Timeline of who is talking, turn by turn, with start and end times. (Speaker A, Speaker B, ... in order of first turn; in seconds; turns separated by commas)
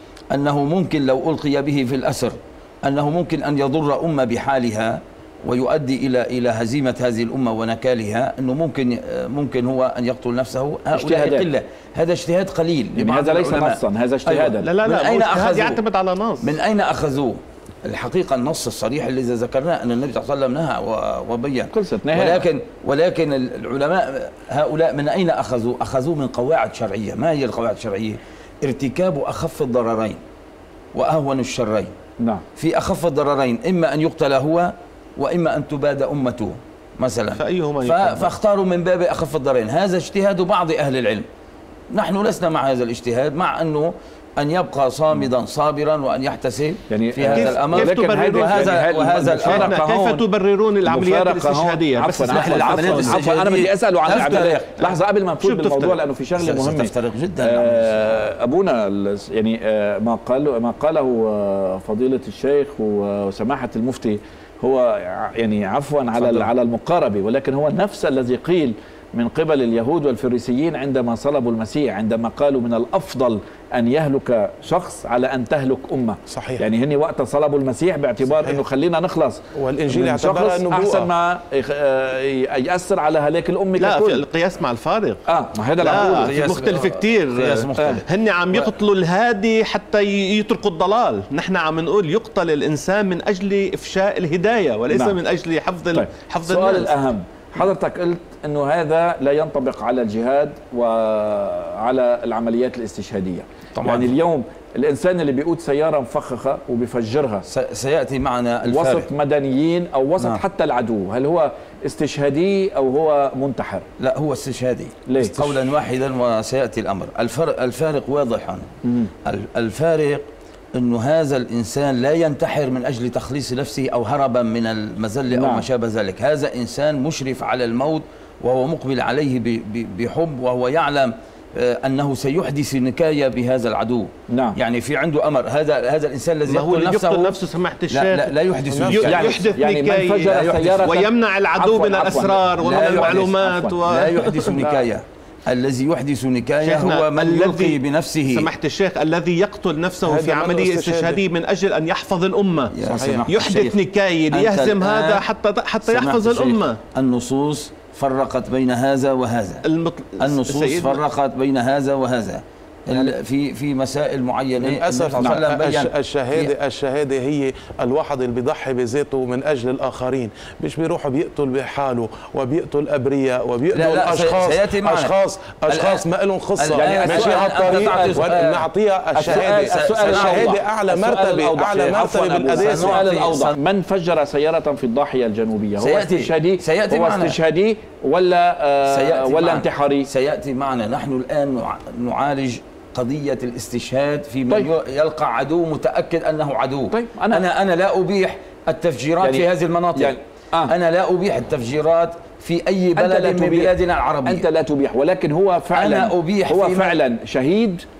Speaker A: 0.3-15.8, Speaker B: 10.9-11.5, Speaker B: 12.9-14.7, Speaker C: 14.6-16.5, Speaker A: 16.4-30.2, Speaker B: 21.7-22.4, Speaker A: 30.9-31.9, Speaker A: 32.6-41.2, Speaker C: 37.4-38.3, Speaker A: 41.9-49.8, Speaker B: 46.9-50.2, Speaker C: 47.2-48.9, Speaker C: 49.4-53.2, Speaker B: 50.9-56.9, Speaker A: 52.3-54.8, Speaker C: 55.4-56.0, Speaker A: 56.4-58.2, Speaker B: 57.4-84.2, Speaker A: 66.2-66.5, Speaker D: 76.3-76.6, Speaker D: 78.3-78.6, Speaker D: 79.5-81.1, Speaker C: 83.8-85.2, Speaker B: 85.3-86.3, Speaker C: 85.8-96.9, Speaker A: 85.8-88.7, Speaker B: 94.9-95.2, Speaker B: 95.9-107.5, Speaker A: 103.7-104.1, Speaker A: 107.5-109.1, Speaker B: 108.6-113.8, Speaker A: 114.0-118.7, Speaker B: 115.1-115.5, Speaker B: 118.8-119.1, Speaker A: 119.2-137.4, Speaker B: 125.3-125.7, Speaker B: 134.3-134.6, Speaker C: 136.5-144.7, Speaker A: 137.9-139.5, Speaker D: 138.7-139.2, Speaker B: 139.0-143.3, Speaker A: 142.6-148.5, Speaker C: 146.6-152.7, Speaker D: 150.0-151.2, Speaker A: 152.7-153.8, Speaker D: 152.8-153.2, Speaker C: 153.3-156.8, Speaker A: 154.3-155.2, Speaker A: 155.8-159.6, Speaker C: 159.6-161.0, Speaker A: 160.2-166.5, Speaker D: 164.6-183.1, Speaker A: 173.7-175.1, Speaker A: 175.7-176.0, Speaker A: 176.6-178.7, Speaker B: 176.7-178.3, Speaker B: 179.1-190.1, Speaker A: 179.2-180.6, Speaker A: 181.8-183.6, Speaker A: 185.8-187.4, Speaker A: 188.9-200.2, Speaker B: 196.9-197.4, Speaker B: 199.2-200.7, Speaker A: 200.7-204.4, Speaker B: 202.9-203.7, Speaker B: 204.2-207.8, Speaker A: 205.7-207.0